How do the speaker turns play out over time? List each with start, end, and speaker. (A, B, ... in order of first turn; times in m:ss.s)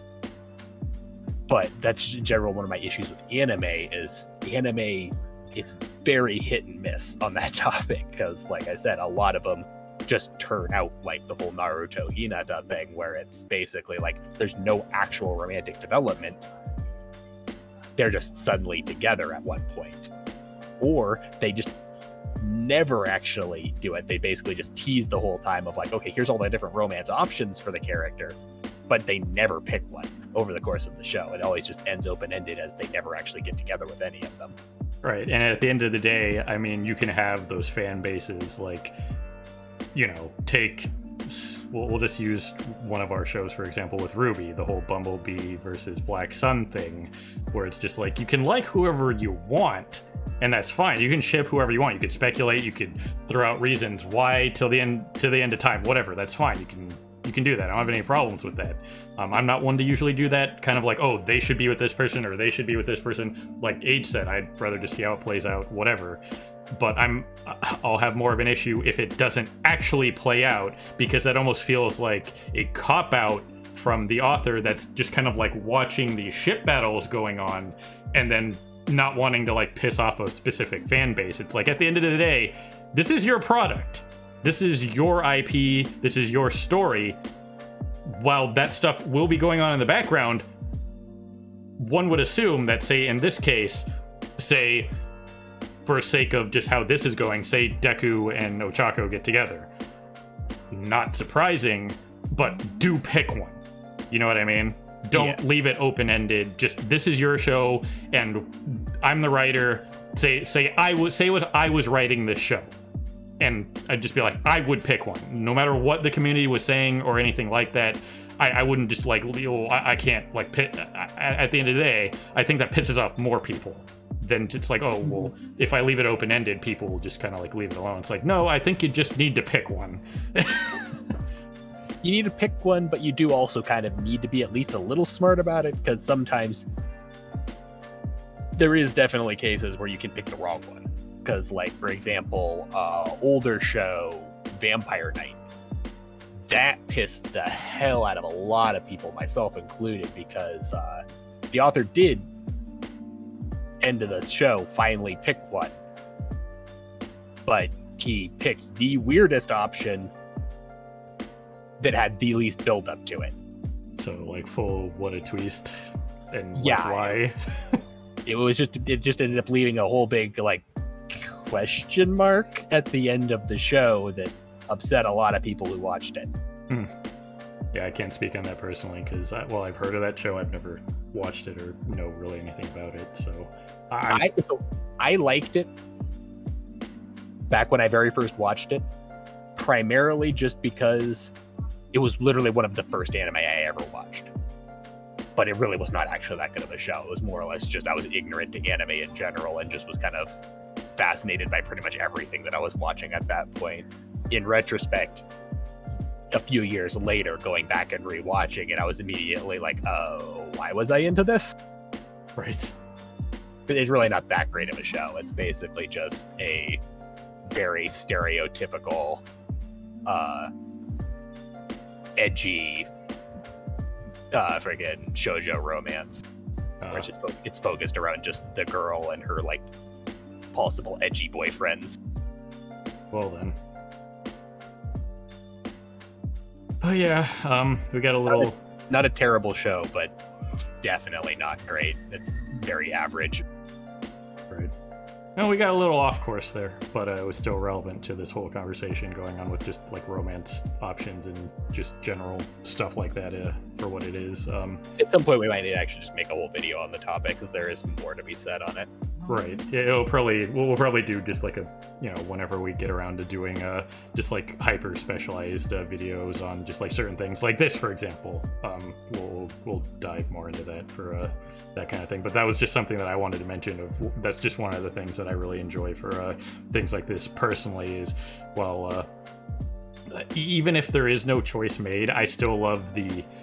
0:01.5-0:16.5 A
0:18.0-0:20.1 A
0:20.8-0:21.7 A
0:22.4-0:28.4 A
0:28.9-0:34.5 A
0:35.0-0:38.9 B
0:39.9-1:06.2 B
1:06.7-1:27.2 B
1:28.0-1:30.4 B
1:31.8-1:33.8 B
1:34.4-1:34.9 B
1:35.8-1:39.7 B
1:40.7-1:52.7 B
1:53.4-2:11.0 B
2:12.0-2:16.6 A
2:18.6-2:25.4 A
2:26.5-2:32.2 A
2:33.8-2:35.8 A
2:37.4-2:40.1 A
2:41.8-2:43.4 A
2:44.0-2:45.8 B
2:46.3-2:47.8 B
2:46.5-2:47.2 A
2:48.2-2:56.3 A
2:57.7-3:04.3 B
3:04.1-3:05.7 A
3:07.5-3:08.8 A
3:09.6-3:11.3 A
3:11.9-3:14.3 A
3:15.4-3:20.4 A
3:21.0-3:25.2 A
3:26.3-3:31.6 A
3:32.4-3:32.8 B
3:33.7-3:36.8 A
3:37.4-3:39.2 A
3:40.0-3:40.5 A
3:42.2-3:42.9 A
3:44.3-3:46.2 A
3:46.8-3:47.1 B
3:46.9-3:49.6 A
3:50.5-3:52.0 A
3:53.1-3:53.6 B
3:56.8-3:58.6 B
3:58.3-4:03.4 A
4:05.4-4:14.8 B
4:15.0-4:18.9 A
4:19.3-4:39.1 B
4:40.1-4:43.3 B